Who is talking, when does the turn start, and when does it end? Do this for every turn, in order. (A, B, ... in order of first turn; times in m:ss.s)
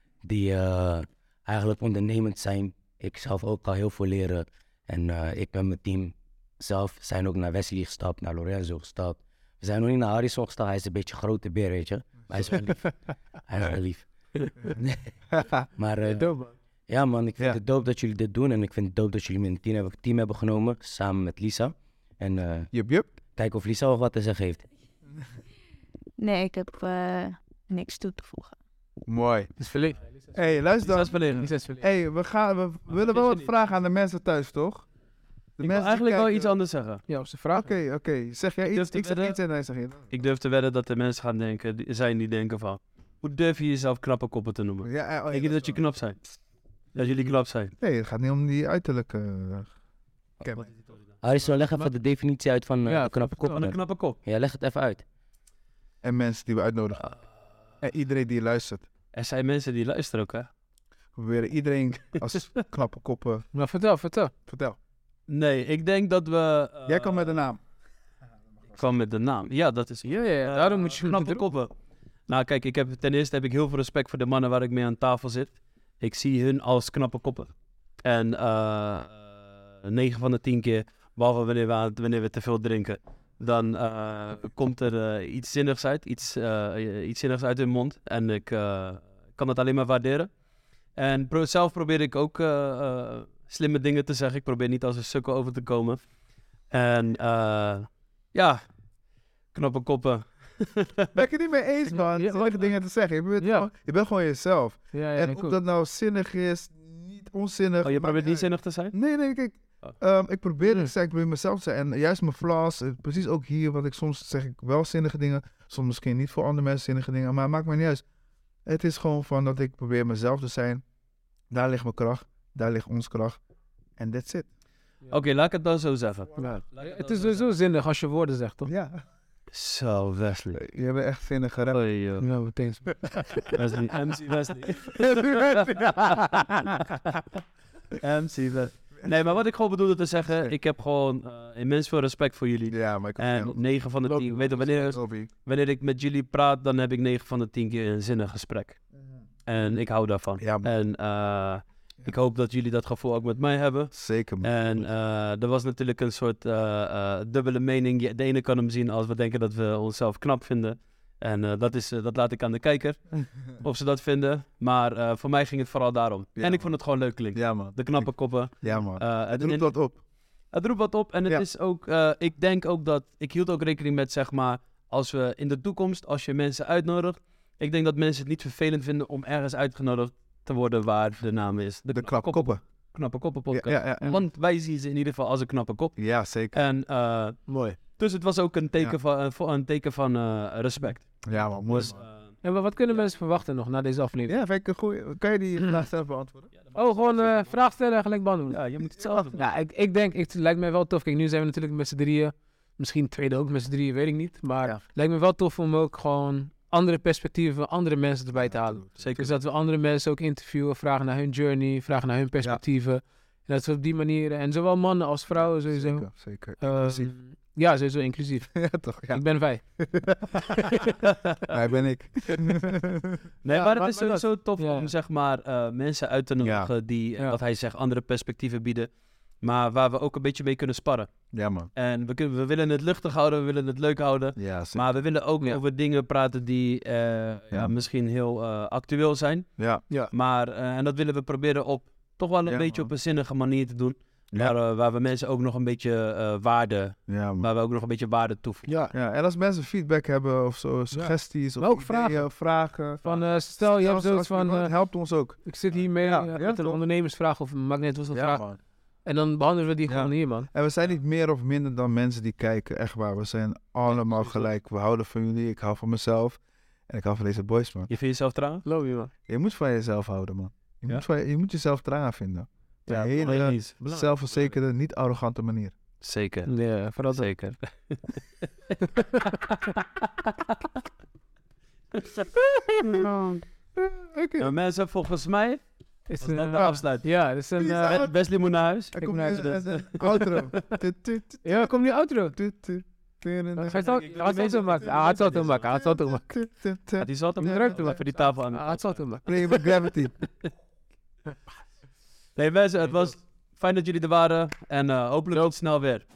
0:00.2-0:12.9 A
0:13.4-0:14.1 A
0:15.3-0:15.7 B
0:15.8-0:16.3 A
0:16.0-0:16.5 C
0:16.9-0:22.7 A
0:22.7-0:23.1 B
0:23.3-0:24.7 A
0:26.2-0:28.6 D
0:29.1-0:29.5 B
0:29.6-0:30.6 C
0:30.3-0:34.8 B
0:30.8-0:31.5 E
0:31.3-0:31.9 C
0:32.9-0:33.5 E
0:35.6-0:36.5 B
0:35.6-0:37.0 E
0:37.1-0:37.7 C
0:37.5-0:40.0 B
0:38.7-0:39.4 E
0:40.1-0:46.2 E
0:44.8-0:45.8 B
0:46.9-0:47.7 E
0:47.8-0:49.7 B
0:50.4-0:50.7 B
0:50.7-0:50.9 E
0:51.2-0:55.0 A
0:52.8-0:53.7 C
0:53.5-0:54.2 E
0:56.0-0:57.1 B
0:57.8-0:58.8 B
0:59.1-1:00.5 E
1:01.2-1:03.4 B
1:03.5-1:04.3 C
1:04.5-1:04.8 B
1:05.3-1:07.5 E
1:06.9-1:07.6 B
1:08.7-1:11.7 E
1:10.0-1:11.4 C
1:12.3-1:17.5 E
1:18.0-1:30.3 E
1:31.0-1:36.0 E
1:36.7-1:38.6 E
1:39.5-1:41.1 E
1:41.1-1:58.0 B
1:41.9-1:42.6 C
1:43.4-1:43.7 C
1:44.9-1:45.6 C
1:47.8-1:48.9 E
1:50.6-1:50.9 C
1:58.6-2:00.8 B
2:01.5-2:03.4 B
2:04.0-2:04.5 B
2:05.1-2:07.5 E
2:06.4-2:08.7 C
2:08.6-2:09.0 B
2:09.5-2:10.6 E
2:10.6-2:11.8 B
2:11.7-2:12.3 E
2:12.2-2:13.6 C
2:13.5-2:17.2 E
2:14.8-2:17.1 B
2:17.9-2:28.8 E
2:22.7-2:25.3 B
2:29.5-2:33.9 E
2:30.4-2:30.7 B
2:33.9-2:34.9 B
2:34.4-2:49.7 E
2:46.4-2:46.7 B
2:47.3-2:48.1 B
2:48.6-2:50.0 B
2:50.5-3:06.0 E
3:01.9-3:02.6 B
3:03.5-3:04.2 B
3:06.0-3:06.6 B
3:06.5-3:07.4 E
3:07.5-3:07.8 C
3:08.0-3:11.2 E
3:11.2-3:12.0 B
3:11.7-3:12.4 E
3:12.4-3:14.3 C
3:14.3-3:16.5 B
3:16.6-3:17.6 E
3:16.7-3:18.6 C
3:18.5-3:19.4 E
3:19.0-3:19.4 B
3:19.3-3:36.1 C
3:28.4-3:28.8 B
3:29.0-3:29.4 E
3:35.3-3:37.1 B
3:36.6-3:38.5 C
3:38.5-3:39.2 B
3:39.1-3:39.6 C
3:39.8-3:40.9 B
3:40.4-3:40.9 C
3:41.0-3:41.4 E
3:41.4-3:43.2 B
3:43.4-3:48.9 E
3:43.5-3:44.9 C
3:46.4-3:46.7 B
3:49.4-3:51.1 E
3:51.3-3:51.7 B
3:51.7-3:59.5 E
3:54.4-3:54.8 B
4:00.1-4:08.7 E
4:02.4-4:02.9 B
4:07.1-4:07.5 B
4:08.6-4:08.9 C
4:08.9-4:15.4 B
4:10.9-4:12.2 C
4:13.0-4:14.7 C
4:15.4-4:18.4 C
4:16.0-4:16.8 B
4:18.1-4:18.6 B
4:19.0-4:20.5 C
4:19.9-4:27.9 B
4:23.9-4:24.4 E
4:27.9-4:28.6 E
4:28.6-4:29.1 C
4:29.3-4:35.7 B
4:32.9-4:34.5 C
4:33.2-4:33.8 E
4:36.0-4:36.5 E
4:36.5-4:37.5 C
4:37.1-4:38.5 E
4:38.8-4:39.6 C
4:39.3-4:40.7 E
4:41.9-4:43.4 E
4:42.8-4:43.1 B
4:43.8-4:44.5 B
4:44.4-4:45.6 E
4:46.1-4:48.0 C
4:46.2-4:47.1 E
4:47.6-4:48.1 B
4:47.9-4:50.6 E
4:48.9-4:51.7 B
4:49.0-4:49.6 C
4:51.4-4:52.4 C
4:52.3-4:53.9 B
4:53.6-4:56.3 C
4:53.7-4:55.7 E
4:55.6-4:58.0 B
4:57.0-4:58.8 E
4:57.4-4:59.9 C
4:59.2-5:00.1 B
5:02.4-5:06.0 E